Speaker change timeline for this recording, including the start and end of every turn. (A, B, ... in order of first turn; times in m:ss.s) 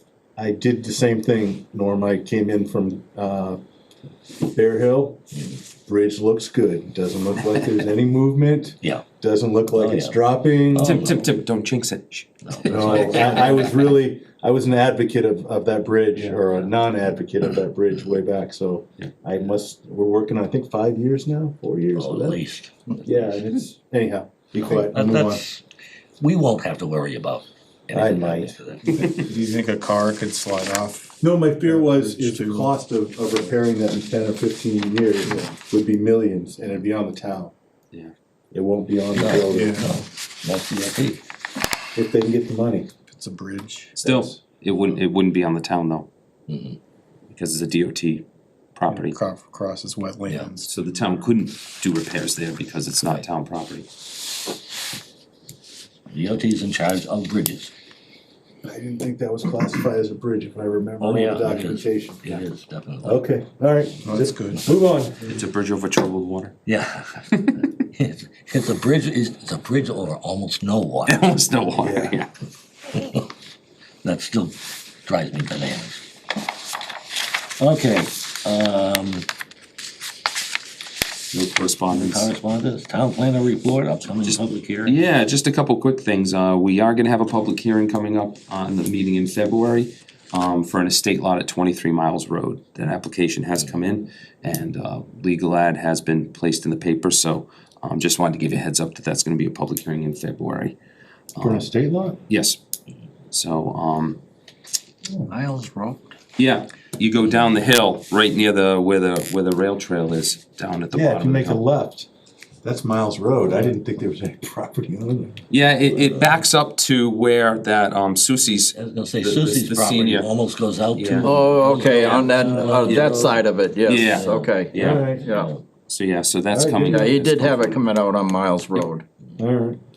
0:00.4-0:03.6 A
0:04.5-0:05.2 A
0:05.3-0:05.6 B
0:05.8-0:11.0 A
0:09.7-0:11.3 B
0:10.8-0:13.6 C
0:12.4-0:13.9 B
0:12.6-0:22.4 A
0:21.9-0:23.4 B
0:23.0-0:25.4 A
0:24.6-0:25.6 B
0:26.2-0:29.1 B
0:27.9-0:28.6 A
0:29.0-0:29.2 C
0:29.0-0:32.7 D
0:31.2-0:37.5 A
0:35.2-0:35.5 D
0:38.5-0:39.9 A
0:39.1-0:41.2 B
0:39.5-0:40.0 D
0:41.9-0:42.9 A
0:43.1-0:43.9 D
0:44.0-0:46.1 C
0:44.0-0:44.4 A
0:46.5-0:46.8 B
0:47.3-0:49.2 C
0:48.9-0:51.2 D
0:50.7-0:53.9 C
0:56.1-0:57.7 B
0:58.6-1:02.2 A
1:01.0-1:03.2 B
1:03.0-1:05.3 A
1:04.0-1:04.7 D
1:05.2-1:06.6 C
1:06.6-1:11.2 B
1:07.3-1:07.6 C
1:11.0-1:12.3 C
1:11.8-1:12.2 A
1:12.9-1:13.3 B
1:14.0-1:16.0 B
1:17.6-1:19.3 B
1:21.3-1:22.3 C
1:21.9-1:25.0 B
1:24.2-1:40.8 C
1:41.3-1:41.7 C
1:41.4-1:42.2 A
1:42.3-1:42.6 C
1:43.3-1:44.2 C
1:45.3-1:46.1 B
1:46.4-1:51.6 C
1:50.9-1:52.1 A
1:52.6-1:55.4 A
1:55.5-2:00.3 C
1:55.9-1:56.3 B
1:58.7-2:03.4 B
2:01.0-2:01.3 C
2:01.2-2:05.5 E
2:02.8-2:05.0 C
2:04.0-2:05.6 B
2:04.8-2:05.3 A
2:05.9-2:07.8 C
2:06.5-2:07.0 A
2:06.8-2:09.0 E
2:09.4-2:09.8 A